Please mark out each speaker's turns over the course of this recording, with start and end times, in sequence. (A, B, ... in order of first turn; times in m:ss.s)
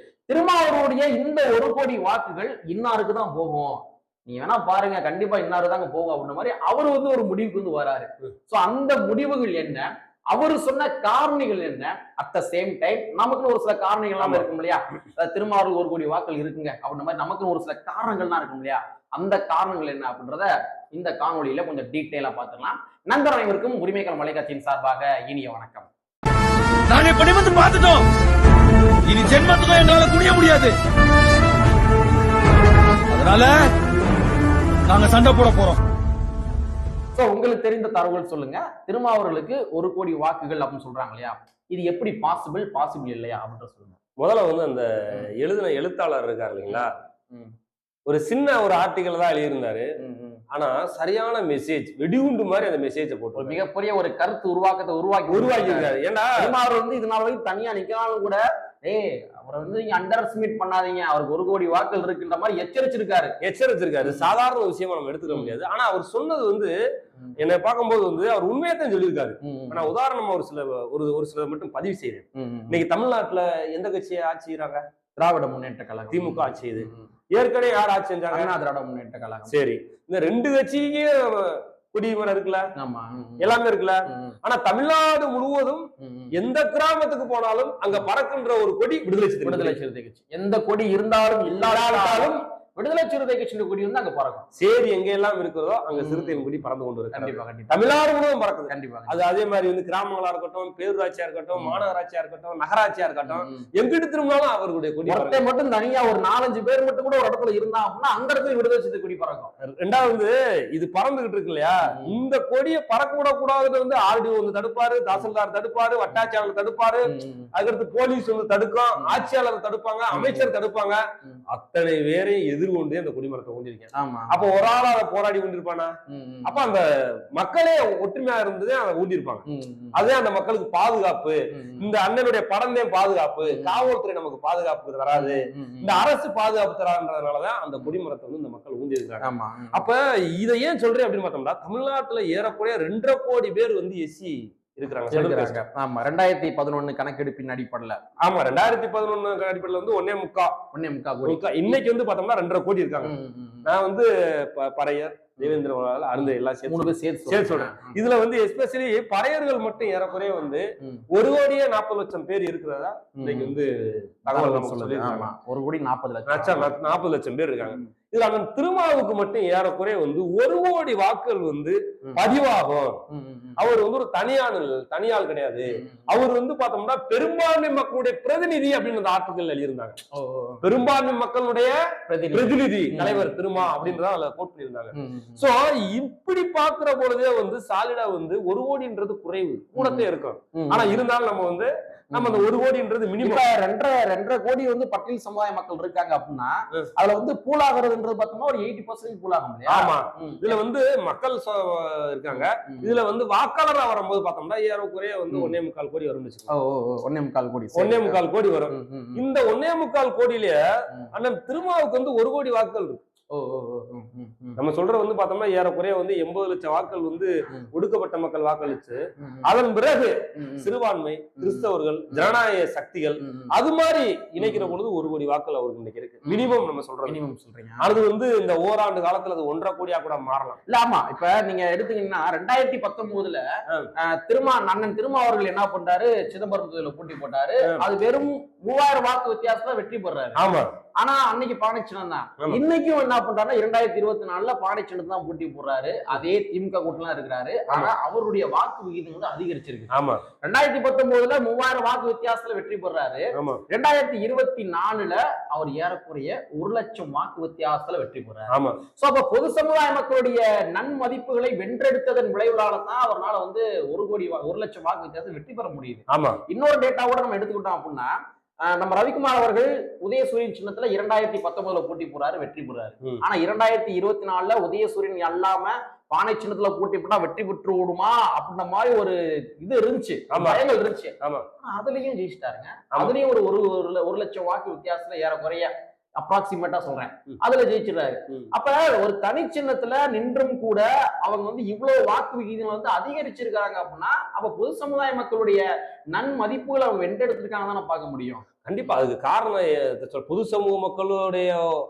0:00.3-0:25.9 A
0:14.2-0:14.5 B
0:26.9-0:28.1 C
0:29.0-0:30.8 C
0:33.1-0:33.7 C
0:34.9-0:35.8 C
0:37.2-0:44.0 A
0:44.2-0:46.9 B
0:46.7-0:47.5 A
0:48.1-0:49.9 B
0:50.0-0:50.4 A
0:50.5-0:53.6 B
0:53.4-1:03.4 A
0:55.3-0:56.4 B
1:03.4-1:06.7 B
1:04.0-1:04.3 A
1:05.3-1:05.6 A
1:07.4-1:14.8 B
1:09.4-1:09.9 A
1:12.4-1:12.8 A
1:15.2-1:17.1 A
1:16.1-1:18.5 B
1:18.3-1:19.5 A
1:19.5-1:22.7 B
1:22.8-1:23.5 A
1:23.4-1:29.8 B
1:24.1-1:24.3 A
1:26.0-1:26.4 A
1:29.4-1:34.5 A
1:31.6-1:32.4 B
1:34.6-1:45.4 B
1:36.0-1:36.4 A
1:37.1-1:37.9 A
1:38.7-1:39.2 A
1:41.6-1:41.8 A
1:43.2-1:43.7 A
1:45.1-1:49.5 A
1:49.6-2:05.9 B
1:57.1-1:57.5 A
2:00.1-2:00.5 A
2:04.0-2:04.4 A
2:06.1-2:06.5 A
2:06.5-2:25.6 B
2:09.5-2:10.0 A
2:11.5-2:11.9 A
2:13.5-2:13.9 A
2:15.1-2:16.0 A
2:19.2-2:19.9 A
2:25.1-2:28.0 A
2:28.2-2:30.6 B
2:30.7-2:31.4 A
2:31.2-2:33.1 B
2:33.0-2:33.7 A
2:33.6-2:45.3 B
2:36.7-2:38.0 A
2:43.2-2:43.6 A
2:44.3-2:46.8 A
2:46.3-2:53.0 B
2:53.1-2:53.6 A
2:53.6-3:00.0 B
2:55.7-2:56.0 A
3:00.2-3:00.6 A
3:00.6-3:01.8 B
3:02.1-3:03.9 A
3:02.3-3:13.4 B
3:04.9-3:05.4 A
3:09.8-3:11.0 A
3:12.1-3:12.5 A
3:13.2-3:20.4 A
3:19.7-3:26.5 B
3:22.3-3:22.9 A
3:26.5-3:28.2 A
3:27.8-3:30.6 B
3:28.7-3:29.2 A
3:31.1-3:33.0 B
3:33.3-3:34.6 A
3:34.6-3:47.2 B
3:39.2-3:39.5 A
3:40.4-3:40.7 A
3:41.4-3:42.3 A
3:43.2-3:43.5 A
3:44.4-3:44.8 A
3:46.2-3:47.9 A
3:47.8-3:50.6 B
3:50.7-3:53.4 A
3:54.0-4:00.4 A
4:00.4-4:00.7 B
4:01.0-4:28.1 A
4:09.9-4:10.2 B
4:13.4-4:13.6 B
4:18.5-4:18.8 B
4:26.1-4:26.4 B
4:28.7-4:58.4 A
4:40.3-4:40.6 B
4:41.2-4:41.5 B
4:58.6-5:01.6 B